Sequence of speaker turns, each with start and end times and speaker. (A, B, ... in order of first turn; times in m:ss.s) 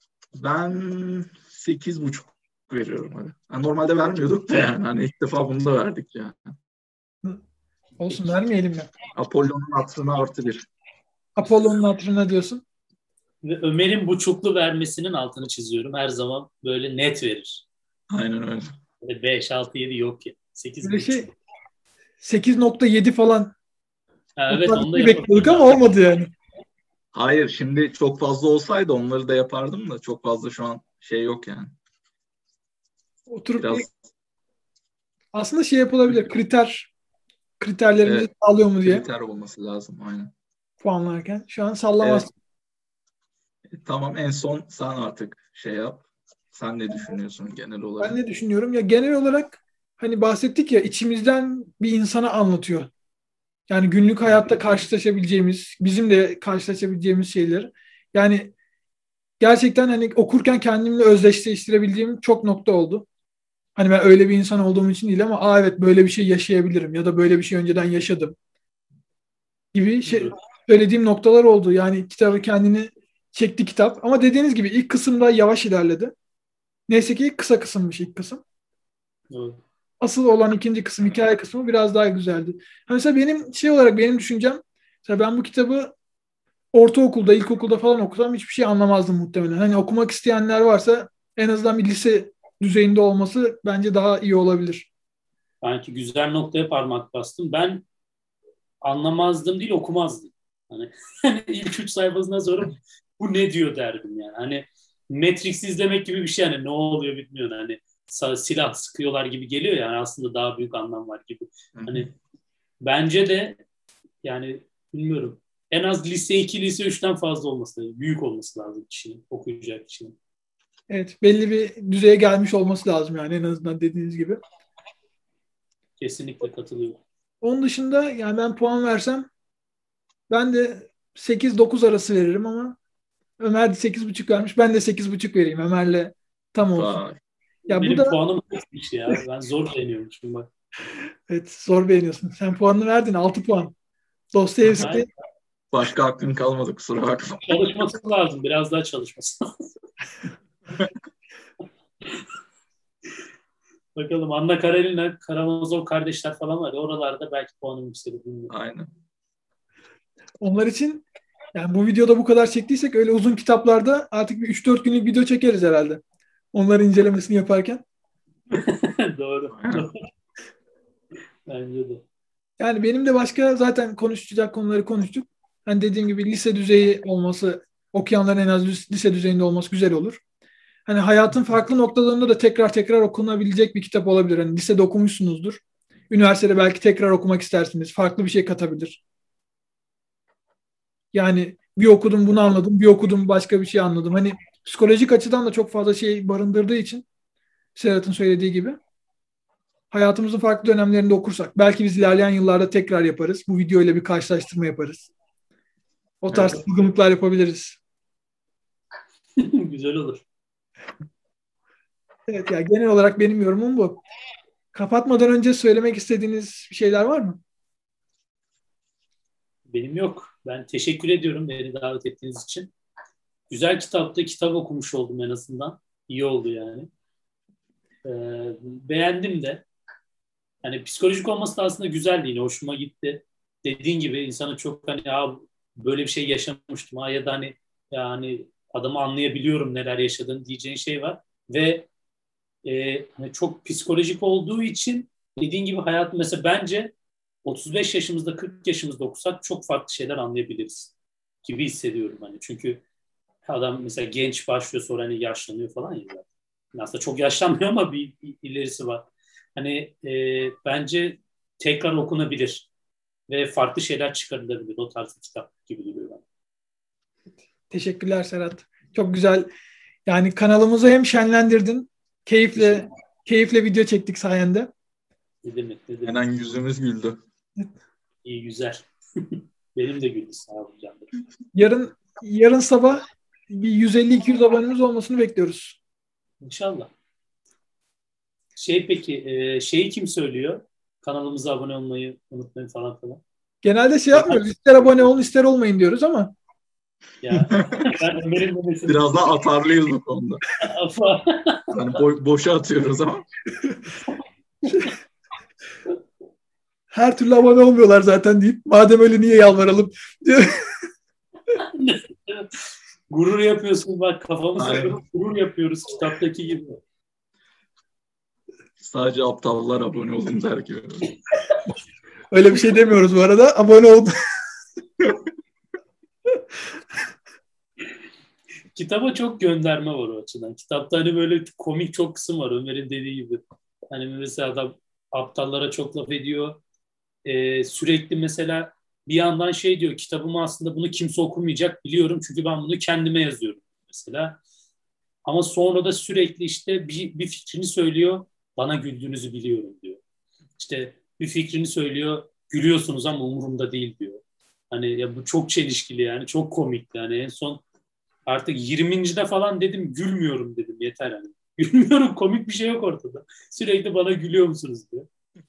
0:00.3-0:06.6 A
0:08.0-0:08.9 B
0:09.1-0:10.7 A
0:11.4-0:12.6 B
0:13.4-0:17.6 C
0:18.1-0:18.7 A
0:19.0-0:21.2 C
0:20.8-0:21.3 B
0:22.2-0:23.5 B
0:24.4-0:25.8 C
0:24.5-0:26.3 B
0:27.1-0:31.7 A
0:33.3-0:33.8 B
0:33.6-0:33.9 A
0:35.3-0:36.9 B
0:37.6-0:39.0 B
0:38.0-0:38.3 A
0:38.8-0:40.3 A
0:40.8-0:42.3 B
0:42.0-0:42.2 A
0:43.7-0:48.2 A
0:48.0-0:52.9 B
0:53.7-0:58.5 B
0:59.4-1:03.0 B
1:03.8-1:08.3 B
1:09.7-1:16.1 B
1:10.0-1:10.3 C
1:16.9-1:18.4 B
1:19.3-1:19.6 C
1:20.0-1:25.9 B
1:26.7-1:34.9 B
1:35.6-1:37.8 C
1:38.8-1:52.1 C
1:51.7-1:52.1 A
1:52.8-1:53.6 C
1:54.2-2:00.2 C
2:00.9-2:04.4 B
2:06.0-2:07.0 C
2:07.4-2:09.3 B
2:10.3-2:12.8 B
2:13.4-2:17.0 B
2:16.7-2:17.2 A
2:17.7-2:18.2 B
2:17.7-2:20.5 C
2:21.3-2:23.7 B
2:24.3-2:25.1 B
2:24.8-2:25.0 C
2:25.7-2:27.5 A
2:27.4-2:29.4 C
2:33.9-2:38.5 C
2:38.5-2:38.9 A
2:40.4-2:46.0 B
2:46.5-2:47.8 B
2:48.5-2:50.0 C
2:49.5-2:49.9 A
2:51.5-2:52.0 C
2:52.6-3:00.2 B
3:00.9-3:09.0 B
3:11.1-3:17.0 B
3:17.8-3:18.8 B
3:19.9-3:25.1 B
3:26.2-3:27.8 B
3:26.3-3:26.6 C
3:29.4-3:30.2 C
3:32.3-3:34.0 B
3:34.7-3:37.4 B
3:39.7-3:42.7 C
3:43.5-3:46.9 C
3:48.0-3:49.6 C
3:50.6-4:01.9 C
4:02.6-4:06.9 C
4:07.4-4:12.8 C
4:13.5-4:22.7 C
4:23.3-4:26.2 C
4:27.7-4:29.5 B
4:30.0-4:34.7 B
4:32.5-4:32.9 C
4:35.4-4:36.2 C
4:36.0-4:37.2 A
4:38.2-4:41.1 C
4:41.5-4:45.8 B
4:46.4-4:46.9 C
4:48.6-4:53.2 C
4:53.6-4:56.3 B
4:54.1-4:54.4 C
4:57.2-4:59.0 C
4:57.3-4:58.0 A
4:58.8-5:00.4 A
5:00.6-5:01.8 C
5:01.7-5:03.3 A
5:06.9-5:10.9 B
5:11.6-5:12.5 C
5:13.1-5:16.8 C
5:14.6-5:15.0 A
5:18.8-5:21.1 A
5:22.3-5:24.1 B
5:28.7-5:33.4 C
5:33.9-5:36.6 C
5:37.2-5:44.4 C
5:45.2-5:50.0 C
5:50.6-5:57.6 C
5:58.3-6:05.1 C